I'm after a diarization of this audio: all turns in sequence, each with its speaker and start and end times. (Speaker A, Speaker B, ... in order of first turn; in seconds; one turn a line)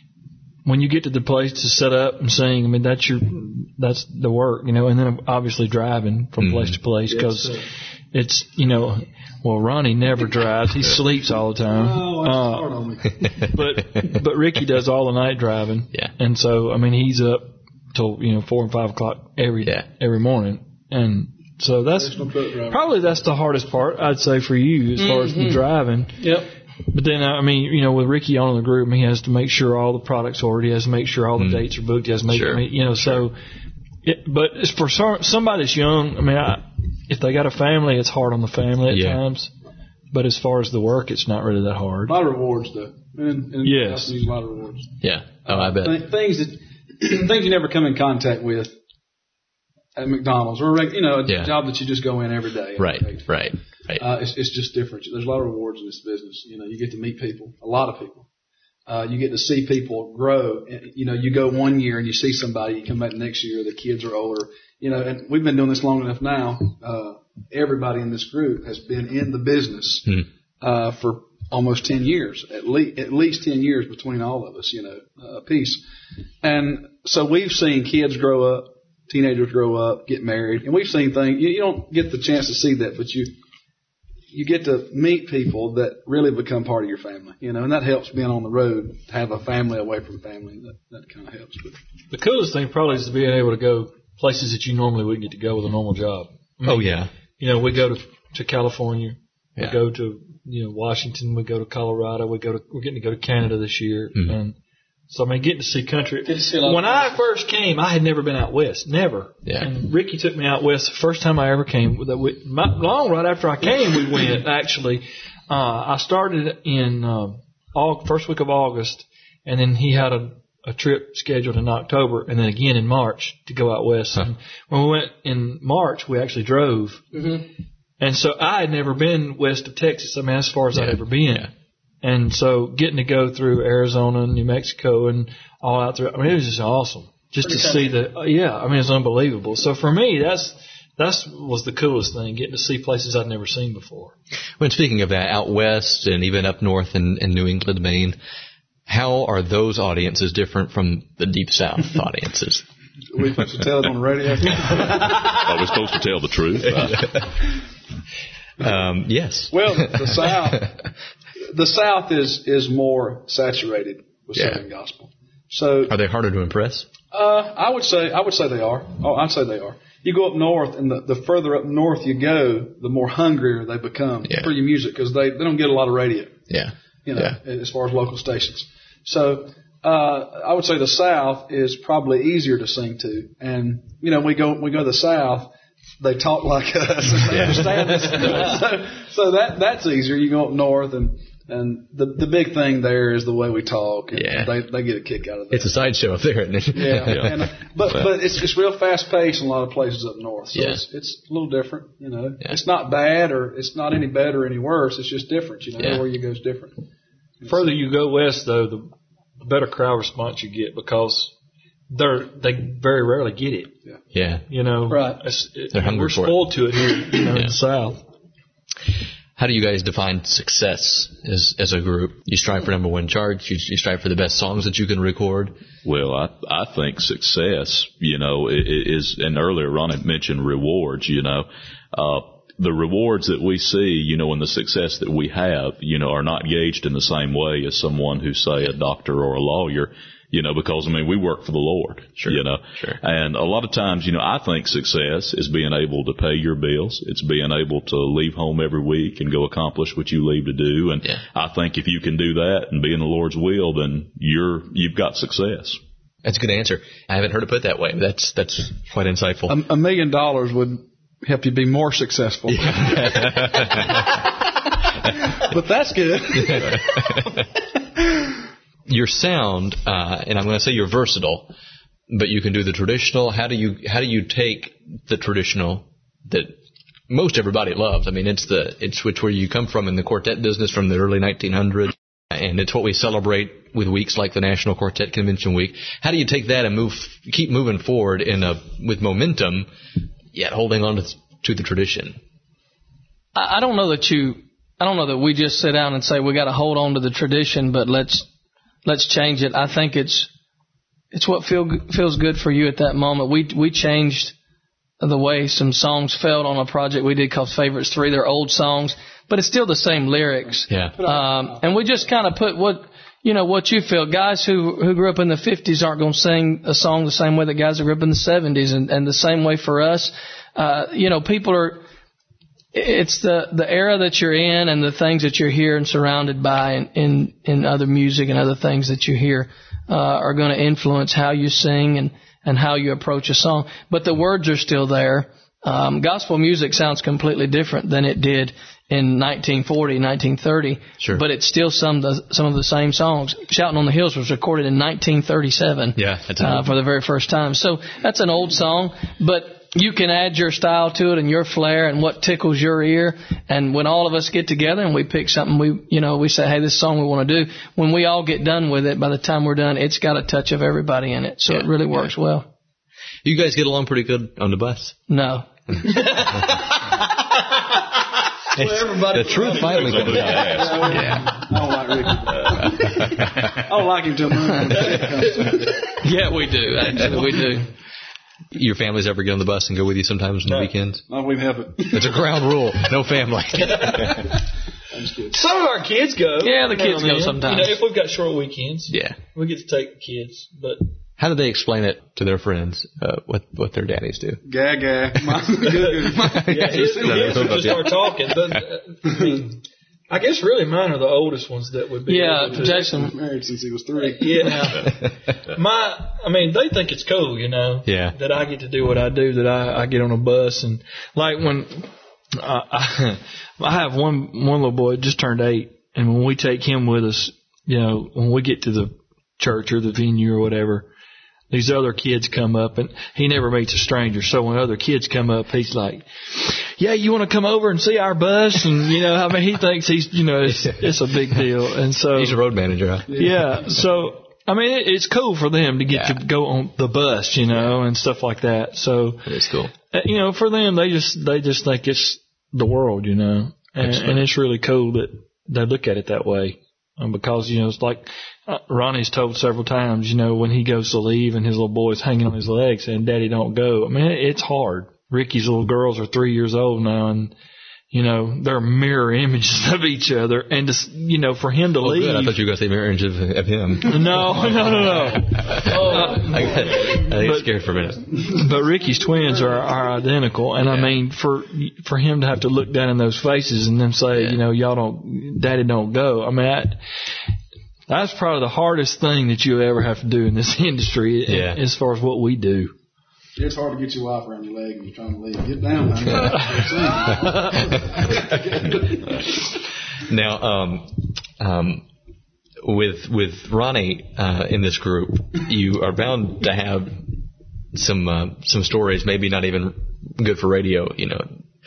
Speaker A: 0.7-12.7
Speaker B: 6.4-6.8
Speaker C: 7.1-7.6
Speaker C: 11.6-13.2
Speaker A: 13.4-26.3
Speaker C: 21.9-22.9
Speaker D: 25.0-25.6
Speaker D: 26.2-26.5
Speaker A: 26.9-33.3
Speaker B: 31.4-31.7
Speaker B: 32.3-33.2
Speaker A: 34.0-39.5
Speaker B: 38.9-39.2
Speaker A: 40.1-42.1
Speaker C: 42.1-45.0
Speaker A: 43.6-44.1
Speaker B: 45.0-46.0
Speaker C: 45.5-48.8
Speaker C: 50.0-53.3
Speaker B: 51.3-51.5
Speaker B: 52.8-54.0
Speaker C: 54.0-58.3
Speaker C: 58.9-75.8
Speaker C: 76.4-83.3
Speaker C: 84.3-91.8
Speaker A: 92.1-104.6
Speaker B: 96.6-97.1
Speaker A: 105.1-127.1
Speaker D: 106.2-107.2
Speaker B: 109.5-109.7
Speaker D: 127.1-127.4
Speaker A: 128.0-131.5
Speaker B: 130.7-131.5
Speaker A: 132.0-144.1
Speaker B: 144.6-148.2
Speaker B: 148.9-152.6
Speaker C: 153.1-155.5
Speaker E: 155.4-157.2
Speaker B: 156.8-157.3
Speaker B: 158.6-160.7
Speaker C: 159.5-160.7
Speaker C: 161.5-165.9
Speaker B: 164.3-164.6
Speaker B: 165.9-166.9
Speaker C: 167.1-176.3
Speaker B: 174.2-174.5
Speaker B: 176.5-177.4
Speaker C: 177.1-195.8
Speaker B: 187.3-188.2
Speaker B: 194.1-194.5
Speaker B: 195.5-197.4
Speaker C: 196.7-206.8
Speaker E: 197.1-197.3
Speaker B: 200.6-200.8
Speaker B: 205.8-206.0
Speaker C: 207.4-207.7
Speaker A: 207.5-208.9
Speaker A: 209.4-211.3
Speaker A: 211.9-213.7
Speaker B: 214.1-214.5
Speaker A: 214.5-218.0
Speaker D: 214.9-215.2
Speaker B: 215.7-216.6
Speaker B: 217.2-217.6
Speaker B: 219.4-225.5
Speaker E: 225.8-255.8
Speaker B: 242.2-243.0
Speaker B: 256.2-259.6
Speaker C: 259.5-263.3
Speaker B: 262.5-264.1
Speaker C: 265.3-267.3
Speaker B: 266.4-267.4
Speaker B: 268.9-271.5
Speaker B: 272.1-276.6
Speaker B: 277.1-289.7
Speaker B: 290.3-292.2
Speaker D: 293.4-298.3
Speaker D: 298.9-300.3
Speaker D: 301.1-304.4
Speaker D: 305.0-321.8
Speaker B: 310.7-311.0
Speaker C: 311.0-311.7
Speaker D: 322.7-362.5
Speaker B: 341.0-341.2
Speaker B: 346.0-346.7
Speaker B: 363.2-365.0
Speaker D: 365.1-366.8
Speaker B: 368.5-371.4
Speaker C: 369.2-375.9
Speaker A: 369.4-369.8
Speaker E: 369.4-371.1
Speaker B: 372.5-373.5
Speaker D: 376.0-377.7
Speaker B: 378.5-381.1
Speaker C: 381.1-382.2
Speaker B: 381.9-384.3
Speaker C: 384.9-385.4
Speaker A: 385.3-390.8
Speaker D: 386.4-387.8
Speaker B: 388.9-389.2
Speaker B: 391.2-394.4
Speaker C: 394.4-397.8
Speaker A: 395.7-399.6
Speaker B: 396.1-398.0
Speaker A: 400.1-402.9
Speaker D: 402.1-403.1
Speaker C: 402.4-404.8
Speaker A: 404.2-420.9
Speaker B: 404.8-405.1
Speaker B: 407.9-408.2
Speaker A: 421.5-432.4
Speaker B: 430.5-430.9
Speaker B: 432.1-433.3
Speaker C: 433.1-433.4
Speaker A: 433.1-439.3
Speaker B: 435.9-436.2
Speaker B: 439.3-439.7
Speaker A: 439.9-457.3
Speaker B: 443.8-444.3
Speaker A: 457.9-462.4
Speaker B: 461.8-468.2
Speaker A: 463.9-467.5
Speaker D: 465.7-466.3
Speaker A: 468.2-476.8
Speaker B: 470.6-471.0
Speaker B: 474.1-474.4
Speaker A: 477.9-482.7
Speaker B: 481.3-481.6
Speaker C: 483.4-489.3
Speaker B: 490.0-491.9
Speaker B: 492.6-497.1
Speaker B: 497.7-501.3